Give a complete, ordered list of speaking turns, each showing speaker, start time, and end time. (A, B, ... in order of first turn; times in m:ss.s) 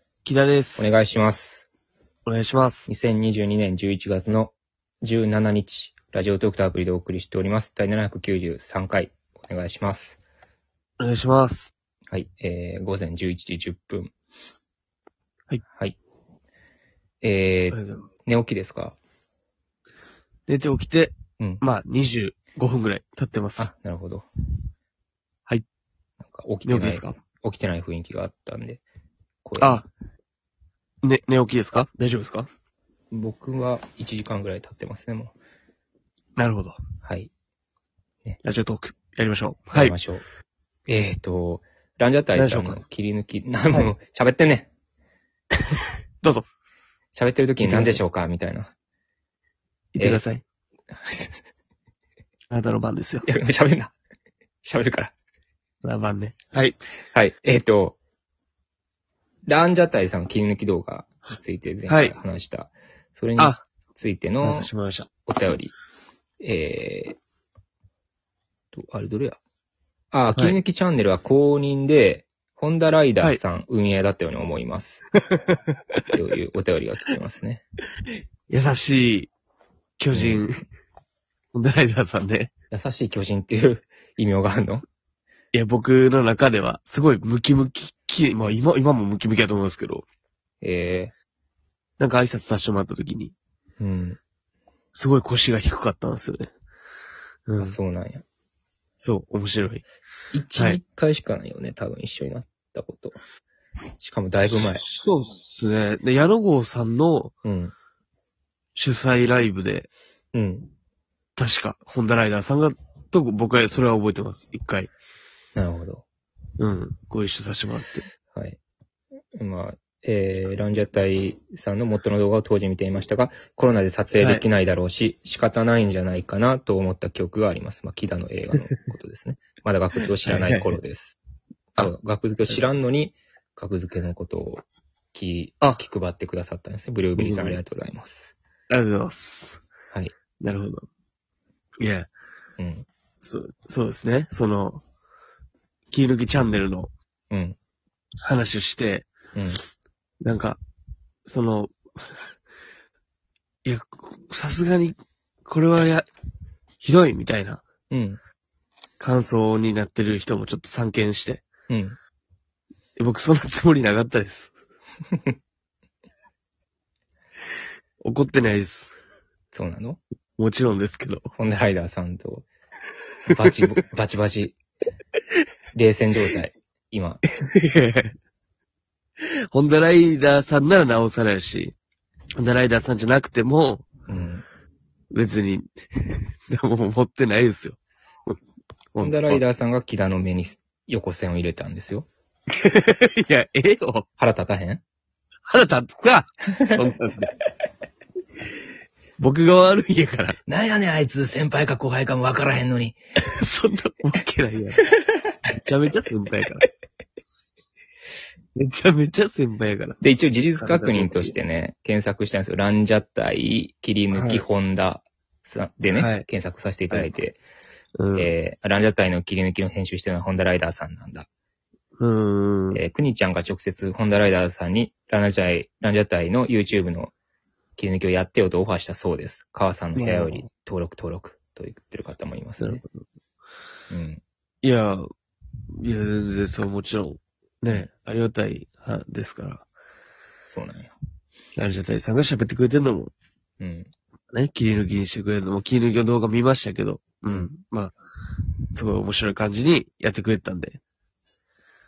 0:00.2-0:00.9 A
0:00.8-0:01.7 B
0:02.3-0:02.9 A
0:02.9-0:10.2 B
0:11.0-0:11.7 A
0:12.1-0:14.1 B
0:15.7-0:16.0 B
0:17.2-0:19.0 B
0:17.7-0:18.0 A
0:20.5-0:23.7 A
0:21.4-0:21.6 B
0:23.6-0:24.3 B
0:26.2-0:28.8 B
0:26.6-0:27.2 A
0:29.4-0:29.9 B
0:29.6-0:29.8 A
0:31.0-0:32.5 A
0:33.1-0:35.3 B
0:36.4-0:36.8 A
0:37.0-0:37.3 B
0:38.4-0:40.0 A
0:39.7-0:40.2 B
0:40.9-0:44.7 B
0:42.4-0:42.8 A
0:47.1-0:48.7 B
0:47.6-0:48.0 A
0:50.0-0:50.4 A
0:50.9-0:51.4 B
0:52.5-0:53.3 A
0:53.2-0:53.9 B
0:54.6-0:55.1 B
0:55.8-0:56.8 A
0:57.1-0:58.0 B
0:59.5-1:04.7 B
1:01.9-1:02.2 A
1:03.4-1:03.6 A
1:04.4-1:05.1 A
1:05.3-1:05.7 B
1:06.4-1:07.2 B
1:08.7-1:09.4 B
1:10.1-1:15.0 B
1:16.1-1:17.6 B
1:18.5-1:19.3 A
1:20.0-1:20.6 A
1:20.1-1:20.4 B
1:21.5-1:22.5 A
1:22.7-1:24.8 B
1:25.5-1:30.0 A
1:30.6-1:31.1 B
1:32.0-1:33.4 A
1:33.8-1:34.2 B
1:34.9-1:36.5 A
1:37.5-1:37.8 A
1:37.6-1:38.2 B
1:39.0-1:39.8 A
1:40.3-1:43.2 B
1:40.6-1:40.8 A
1:44.0-1:44.8 B
1:44.6-1:47.3 A
1:47.4-1:47.7 B
1:48.8-1:49.9 A
1:50.3-1:50.7 B
1:51.4-1:54.9 A
1:55.6-1:56.0 B
1:56.6-1:58.1 A
1:58.3-1:58.6 B
1:59.3-2:11.2 B
2:04.2-2:04.4 A
2:10.3-2:10.8 A
2:11.8-2:18.3 B
2:17.2-2:17.6 A
2:18.7-2:19.6 A
2:20.4-2:20.9 A
2:21.8-2:22.1 A
2:22.6-2:22.9 B
2:23.2-2:24.8 A
2:25.9-2:26.9 A
2:27.3-2:27.6 B
2:28.2-2:29.1 A
2:29.4-2:29.6 B
2:30.2-2:30.6 A
2:31.3-2:32.2 A
2:33.6-2:36.1 A
2:36.8-2:37.6 A
2:37.9-2:38.2 B
2:39.0-2:41.5 A
2:41.7-2:42.0 B
2:43.0-2:44.5 A
2:48.0-2:48.9 A
2:49.5-2:50.0 B
2:50.4-2:51.3 A
2:51.4-2:52.5 B
2:53.3-2:54.6 B
2:55.8-2:57.2 B
2:57.5-2:58.1 A
2:59.5-3:01.8 A
3:02.4-3:03.9 A
3:04.1-3:04.4 B
3:05.1-3:08.4 A
3:08.9-3:09.4 A
3:09.0-3:12.1 B
3:12.6-3:14.1 A
3:14.2-3:14.8 B
3:15.5-3:17.3 A
3:19.2-3:20.4 A
3:20.5-3:23.0 B
3:23.3-3:24.8 A
3:24.9-3:25.2 B
3:25.6-3:26.6 A
3:28.6-3:30.0 A
3:30.0-3:37.4 B
3:30.6-3:31.4 A
3:34.1-3:34.5 A
3:35.8-3:36.3 A
3:38.0-3:38.3 A
3:38.2-3:41.3 B
3:42.0-3:42.8 A
3:42.7-3:47.1 B
3:47.8-3:52.8 B
3:50.0-3:50.4 A
3:52.6-3:52.9 A
3:53.9-3:54.2 B
3:54.6-3:55.1 A
3:55.8-3:59.7 A
4:00.5-4:00.9 B
4:01.6-4:03.1 A
4:03.6-4:03.9 B
4:04.3-4:08.0 A
4:08.7-4:10.8 A